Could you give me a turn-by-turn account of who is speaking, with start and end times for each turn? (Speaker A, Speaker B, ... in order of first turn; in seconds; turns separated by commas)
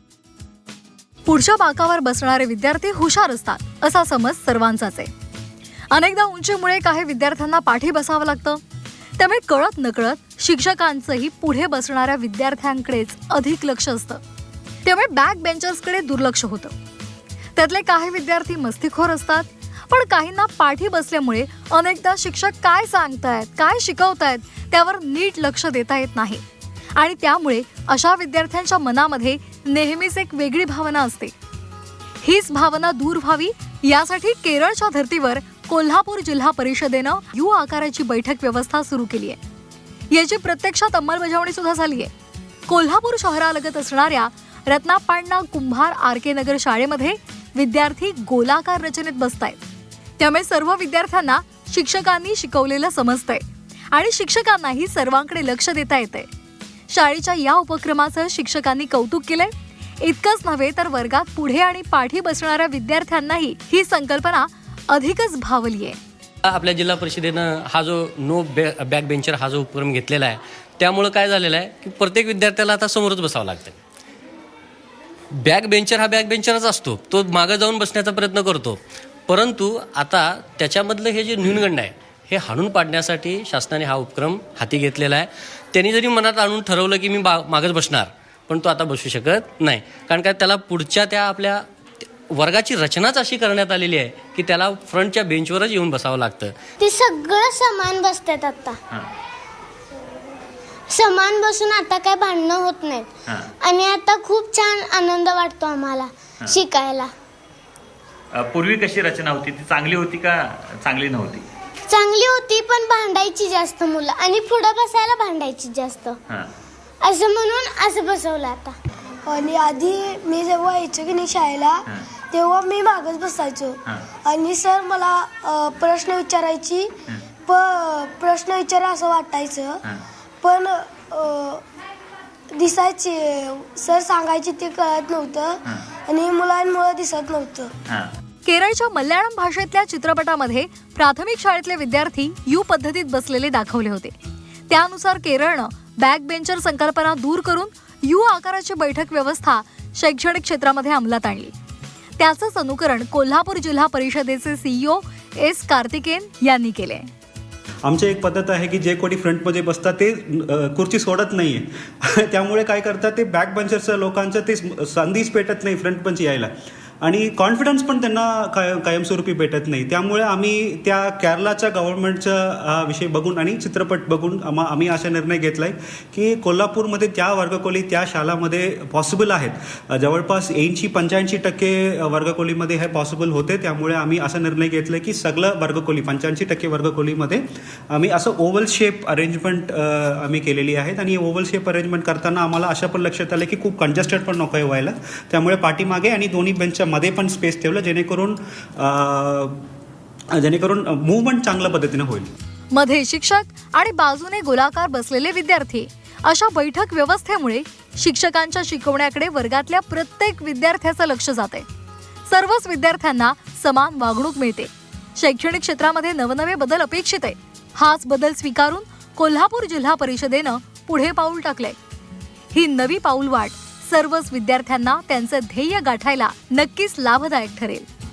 Speaker A: 1.3-5.1, Speaker A: 5.9-8.6, Speaker A: 9.2-14.2, Speaker A: 14.8-16.7, Speaker A: 17.6-26.4, Speaker A: 27.0-31.3, Speaker A: 32.2-39.4, Speaker A: 40.1-42.1, Speaker A: 42.7-49.6, Speaker A: 50.2-56.3, Speaker A: 56.9-66.0, Speaker B: 66.5-73.8, Speaker B: 75.4-91.6, Speaker B: 92.3-96.5, Speaker C: 96.8-98.8, Speaker C: 100.9-103.1, Speaker C: 103.6-107.1, Speaker D: 108.3-111.5, Speaker C: 111.9-116.2, Speaker C: 117.0-118.8, Speaker E: 119.3-126.9, Speaker E: 127.5-129.8, Speaker E: 130.4-131.6, Speaker E: 132.5-137.7, Speaker A: 138.4-144.2, Speaker A: 144.7-151.5, Speaker A: 152.2-157.1, Speaker F: 157.8-199.6, Speaker F: 200.3-202.3, Speaker A: 202.7-211.7, Speaker A: 212.3-221.8, Speaker A: 222.5-227.9